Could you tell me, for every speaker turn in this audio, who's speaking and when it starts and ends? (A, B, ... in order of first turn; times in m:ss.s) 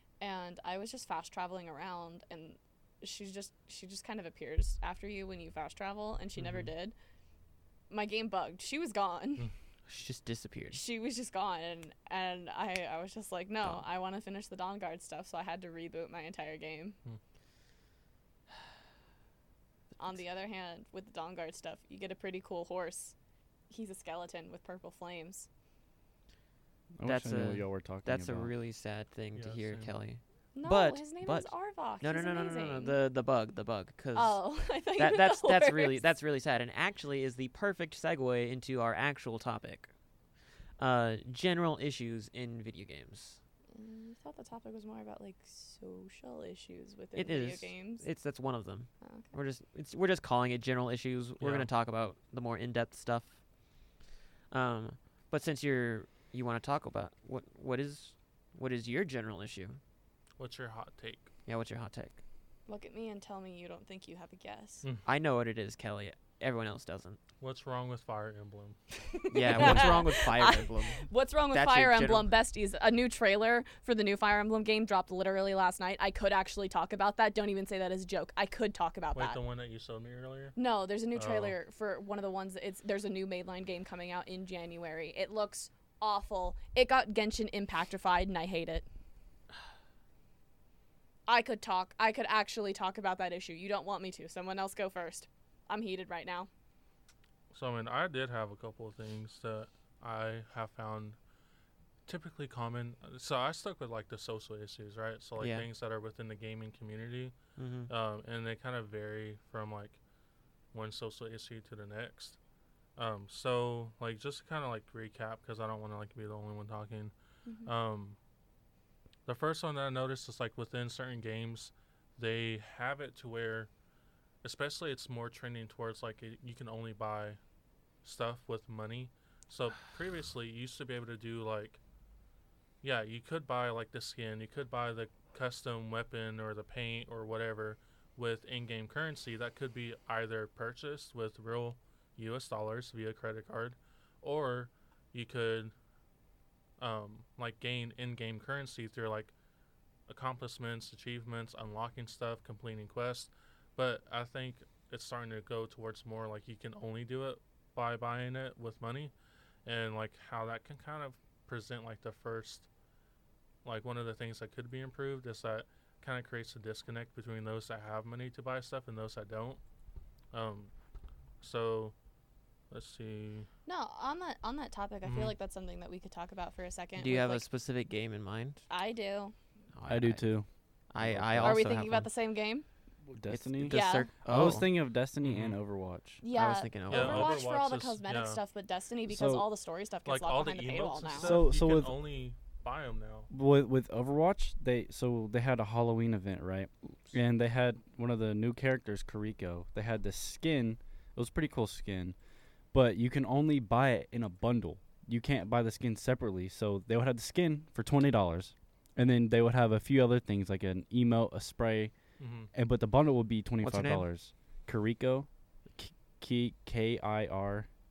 0:00.2-0:07.0 A
0:07.9-0:09.5 A
0:09.9-0:10.8 B
0:10.7-0:17.0 A
0:20.0-0:23.2 A
0:23.7-0:25.5 A
0:27.0-0:28.5 C
0:27.0-0:34.4 B
0:29.4-0:29.9 D
0:30.6-0:33.0 A
0:34.1-0:36.0 A
0:35.0-0:39.9 B
0:40.8-0:43.4 B
0:43.7-0:48.1 A
0:47.2-0:53.4 B
0:49.0-0:49.3 A
0:51.4-0:51.7 D
0:54.5-0:59.8 B
1:00.4-1:01.3 D
1:01.5-1:02.2 B
1:02.7-1:04.8 A
1:05.0-1:07.2 B
1:07.4-1:08.8 D
1:09.1-1:19.4 A
1:09.3-1:12.3 B
1:09.5-1:10.0 D
1:19.2-1:20.6 D
1:20.6-1:28.9 A
1:21.2-1:21.6 D
1:31.3-1:36.5 A
1:37.5-1:41.2 D
1:42.1-1:47.4 D
1:45.4-1:45.7 B
1:47.6-1:47.9 B
1:47.9-1:50.0 D
1:50.7-1:52.4 D
1:53.0-1:57.1 D
1:57.5-1:57.7 A
1:57.7-1:58.2 D
1:59.3-2:03.7 D
2:04.4-2:07.4 D
2:08.0-2:11.8 D
2:12.8-2:25.7 D
2:26.8-2:29.3 D
2:30.1-2:39.1 D
2:39.7-2:42.7 D
2:43.6-2:49.6 D
2:50.3-2:50.7 D
2:51.4-2:51.9 D
2:52.7-2:53.5 D
2:53.7-2:57.5 A
2:55.0-2:55.4 D
2:57.0-2:58.6 B
2:58.7-2:59.4 A
2:59.7-3:00.3 B
2:59.9-3:00.5 C
3:00.9-3:02.1 B
3:01.0-3:01.8 C
3:01.4-3:02.7 A
3:03.1-3:06.2 C
3:03.3-3:04.7 B
3:03.7-3:04.1 A
3:05.2-3:05.6 D
3:06.2-3:11.4 A
3:06.3-3:07.4 B
3:06.9-3:08.4 D
3:09.1-3:09.5 C
3:10.1-3:13.3 D
3:11.2-3:12.0 C
3:13.3-3:22.2 C
3:22.7-3:31.9 C
3:32.2-3:32.5 D
3:32.5-3:37.7 C
3:33.6-3:34.1 B